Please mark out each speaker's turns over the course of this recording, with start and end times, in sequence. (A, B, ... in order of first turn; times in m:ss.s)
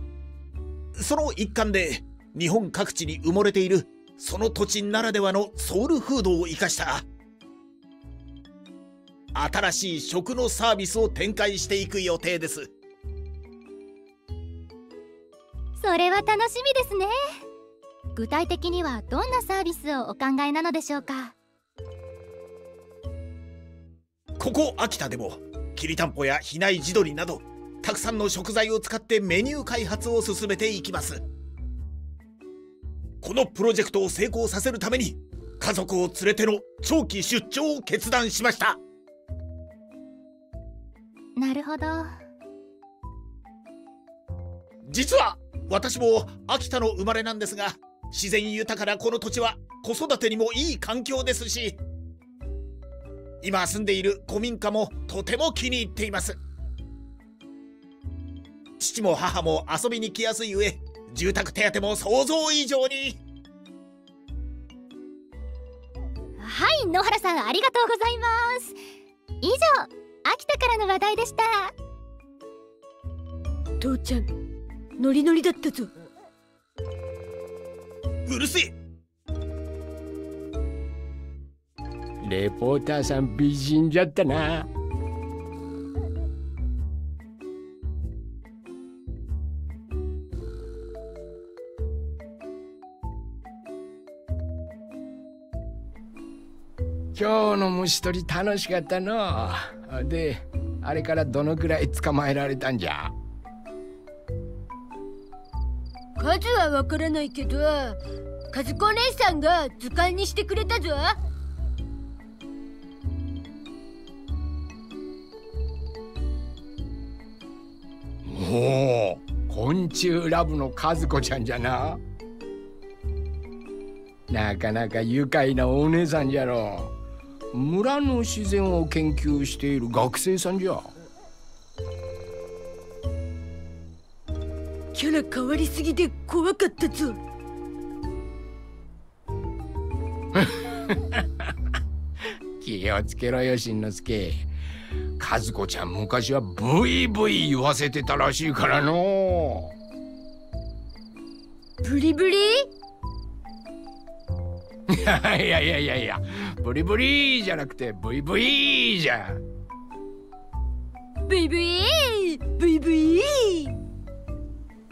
0:01.0-0:07.0 A
0:09.3-0:12.7 A
0:15.8-0:17.2 B
0:18.1-0:21.3 B
0:24.4-0:31.2 A
0:33.2-0:38.8 A
0:41.4-0:42.1 B
0:44.8-0:51.8 A
0:53.4-0:56.4 A
0:58.8-1:03.2 A
1:06.4-1:08.8 B
1:09.4-1:11.7 B
1:13.8-1:14.2 C
1:15.0-1:15.9 C
1:18.3-1:18.8 A
1:22.2-1:24.7 D
1:37.1-1:43.1 D
1:46.2-1:48.0 C
1:48.5-1:51.2 C
1:58.2-2:02.0 D
2:04.3-2:06.9 D
2:07.5-2:10.9 D
2:14.9-2:17.2 C
2:20.3-2:21.5 D
2:22.6-2:24.5 D
2:25.2-2:29.8 D
2:31.8-2:32.7 C
2:34.9-2:39.4 D
2:41.3-2:43.7 C